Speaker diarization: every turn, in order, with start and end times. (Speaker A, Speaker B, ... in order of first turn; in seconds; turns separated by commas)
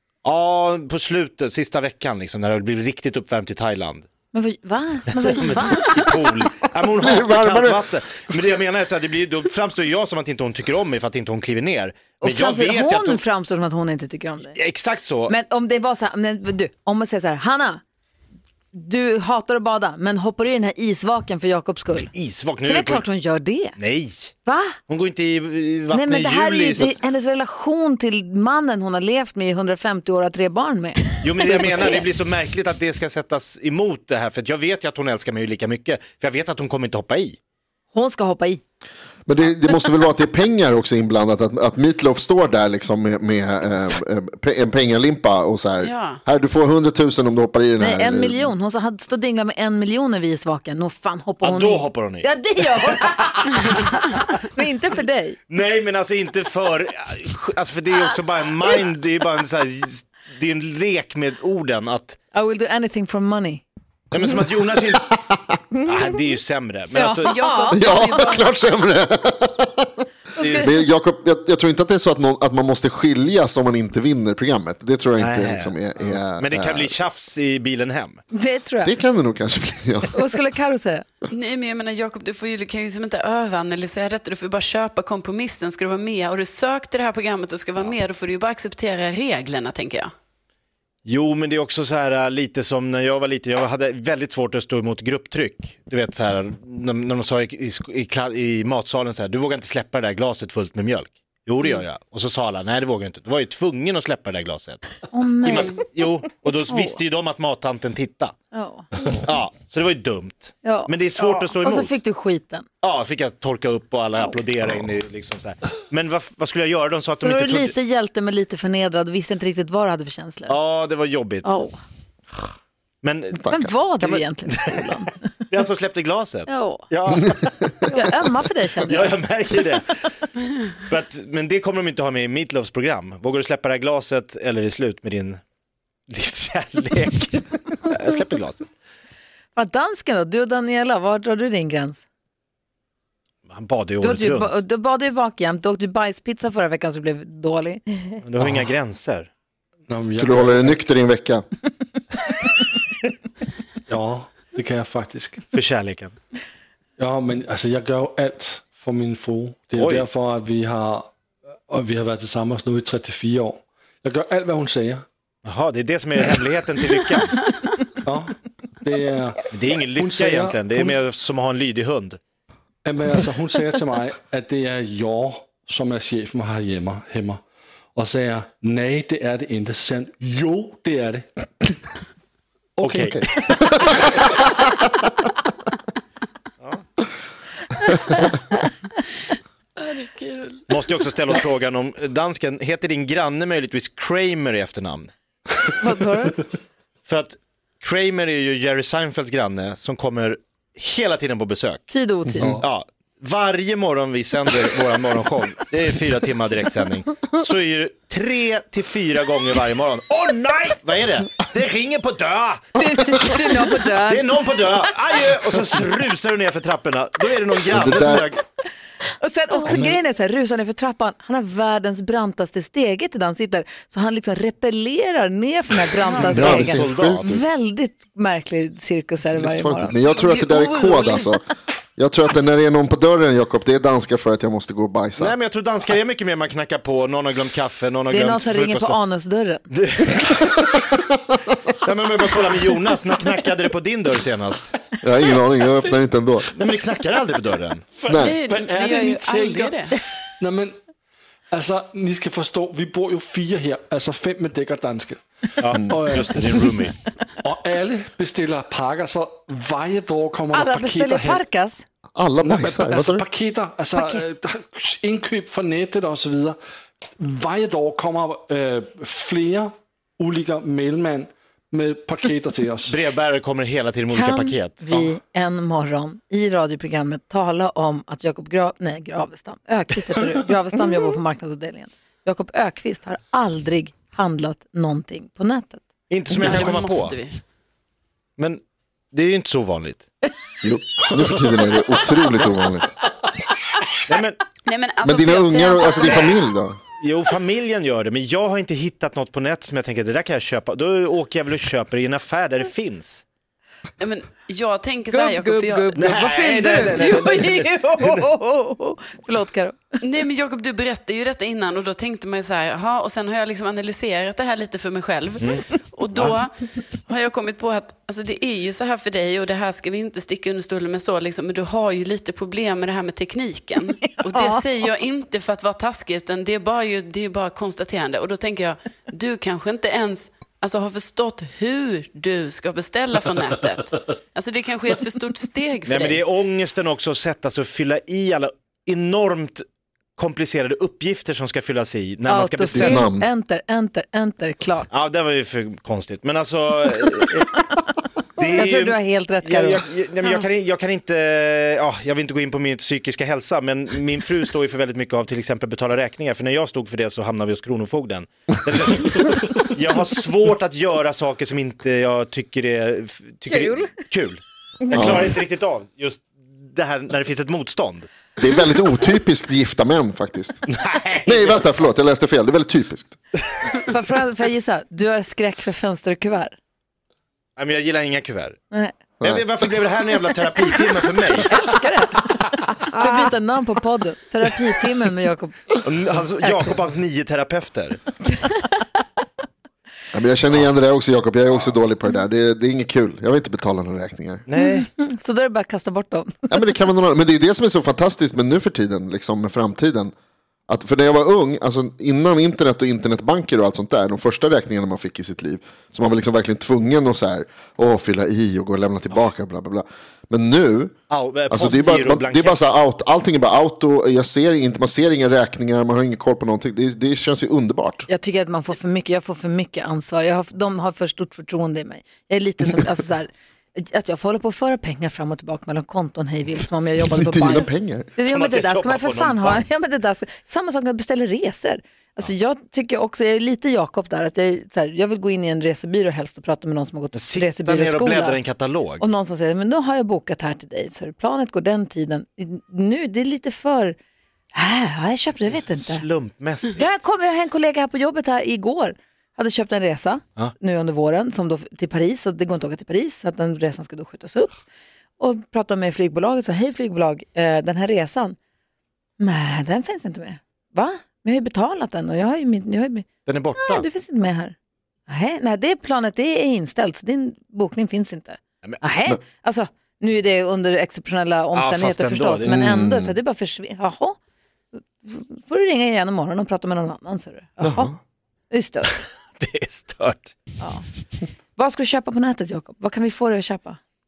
Speaker A: 0.2-4.1, Speaker B: 4.3-6.1, Speaker A: 5.2-13.2, Speaker C: 7.0-7.8, Speaker B: 12.2-14.6, Speaker A: 14.4-15.3, Speaker B: 15.3-17.8, Speaker B: 18.7-22.1, Speaker A: 21.9-23.1, Speaker B: 22.6-23.8, Speaker A: 23.8-24.3, Speaker B: 24.4-24.8, Speaker A: 24.9-27.0, Speaker B: 25.9-32.1, Speaker A: 31.2-37.4, Speaker B: 37.9-38.6, Speaker C: 39.3-48.5, Speaker D: 45.8-46.2, Speaker B: 47.8-55.4, Speaker A: 51.4-53.5, Speaker A: 55.5-62.2, Speaker B: 62.3-63.6, Speaker A: 64.1-65.1, Speaker C: 64.2-65.6, Speaker A: 65.8-67.4, Speaker B: 66.9-68.2, Speaker D: 67.2-68.5, Speaker C: 67.7-77.0, Speaker B: 70.3-70.9, Speaker A: 70.4-70.8, Speaker A: 75.2-78.2, Speaker B: 78.3-79.0, Speaker C: 78.8-80.2, Speaker B: 80.1-81.1, Speaker D: 81.3-90.1, Speaker A: 91.1-108.3, Speaker B: 105.1-105.7, Speaker B: 106.7-107.0, Speaker B: 108.5-108.9, Speaker A: 109.2-111.9, Speaker B: 110.6-112.7, Speaker A: 112.8-117.8, Speaker B: 117.2-120.6, Speaker A: 120.5-121.5, Speaker B: 121.4-121.8, Speaker A: 123.0-128.0, Speaker C: 123.4-123.7, Speaker B: 123.5-125.2, Speaker B: 126.5-126.9, Speaker C: 127.1-127.7, Speaker B: 127.9-129.2, Speaker A: 128.8-129.8, Speaker A: 130.7-135.4, Speaker A: 136.1-138.7, Speaker B: 139.6-142.1, Speaker A: 143.5-144.6, Speaker B: 144.0-147.8, Speaker A: 148.2-149.3, Speaker E: 149.9-150.8, Speaker C: 150.2-151.4, Speaker E: 153.9-155.4, Speaker A: 155.5-156.2, Speaker E: 157.0-161.1, Speaker A: 159.8-160.1, Speaker E: 161.7-165.1, Speaker A: 165.4-167.4, Speaker E: 168.0-171.0, Speaker A: 169.5-172.2, Speaker E: 172.8-177.4, Speaker E: 177.9-181.3, Speaker E: 182.8-183.2, Speaker A: 182.8-183.6, Speaker C: 183.1-184.3, Speaker D: 189.8-190.6, Speaker A: 190.7-195.1, Speaker B: 195.8-196.4, Speaker A: 197.1-213.4, Speaker B: 201.9-202.6, Speaker E: 202.4-202.7, Speaker B: 212.8-214.3, Speaker A: 214.1-218.4, Speaker C: 217.7-218.3, Speaker B: 219.2-230.0, Speaker E: 219.7-220.0, Speaker D: 226.1-226.5, Speaker C: 226.2-227.4, Speaker A: 226.3-227.4, Speaker C: 229.3-231.4, Speaker D: 230.2-231.3, Speaker C: 232.0-235.4, Speaker A: 235.2-239.0, Speaker B: 238.1-239.7, Speaker A: 239.7-240.6, Speaker C: 240.7-241.4, Speaker A: 241.8-244.7, Speaker C: 245.0-246.5, Speaker A: 246.5-247.8, Speaker E: 248.0-249.8, Speaker C: 248.1-248.4, Speaker D: 248.2-249.9, Speaker E: 250.4-250.8, Speaker E: 251.5-256.7, Speaker A: 255.6-257.0, Speaker E: 257.4-261.4, Speaker B: 260.5-261.9, Speaker C: 262.1-263.2, Speaker E: 262.4-266.6, Speaker E: 267.2-273.0, Speaker A: 272.9-275.1, Speaker B: 274.1-285.8, Speaker A: 286.1-287.2, Speaker D: 286.3-287.4, Speaker A: 288.4-290.1, Speaker C: 290.6-292.9, Speaker A: 294.1-294.4, Speaker D: 294.6-296.5, Speaker C: 295.0-296.8, Speaker A: 297.0-303.2, Speaker D: 304.0-307.2, Speaker B: 305.1-310.0, Speaker A: 306.0-308.3, Speaker D: 310.0-336.3, Speaker B: 324.0-324.6, Speaker A: 335.9-339.6, Speaker A: 340.2-343.1, Speaker B: 342.3-344.9, Speaker C: 342.7-343.3, Speaker A: 344.9-347.5, Speaker A: 348.4-368.1, Speaker B: 348.5-349.8, Speaker B: 363.5-363.9, Speaker C: 364.9-365.3, Speaker C: 368.4-370.6, Speaker A: 370.7-371.8, Speaker C: 371.3-373.1, Speaker B: 373.8-376.6, Speaker A: 377.6-378.6, Speaker B: 378.7-379.0, Speaker C: 379.2-379.5, Speaker A: 379.2-381.5, Speaker B: 381.5-385.8, Speaker A: 385.8-388.0, Speaker B: 386.4-386.7, Speaker B: 388.3-388.7, Speaker C: 390.1-394.4, Speaker A: 394.5-394.9, Speaker B: 394.6-396.6, Speaker C: 396.5-400.1, Speaker C: 400.7-410.9, Speaker A: 411.1-412.6, Speaker C: 411.5-418.1, Speaker B: 418.1-438.4, Speaker C: 427.1-428.1, Speaker A: 428.2-429.6, Speaker A: 437.1-439.1, Speaker B: 439.0-444.0, Speaker B: 444.5-446.0, Speaker A: 445.5-446.9, Speaker B: 446.8-454.5, Speaker B: 455.2-458.4, Speaker B: 459.2-463.1, Speaker A: 463.3-463.9, Speaker B: 463.7-464.6, Speaker B: 465.1-474.2, Speaker A: 471.5-472.6, Speaker C: 472.5-473.2, Speaker B: 475.0-477.9, Speaker C: 477.6-478.0, Speaker B: 478.5-478.9, Speaker A: 479.4-480.4, Speaker B: 481.6-483.8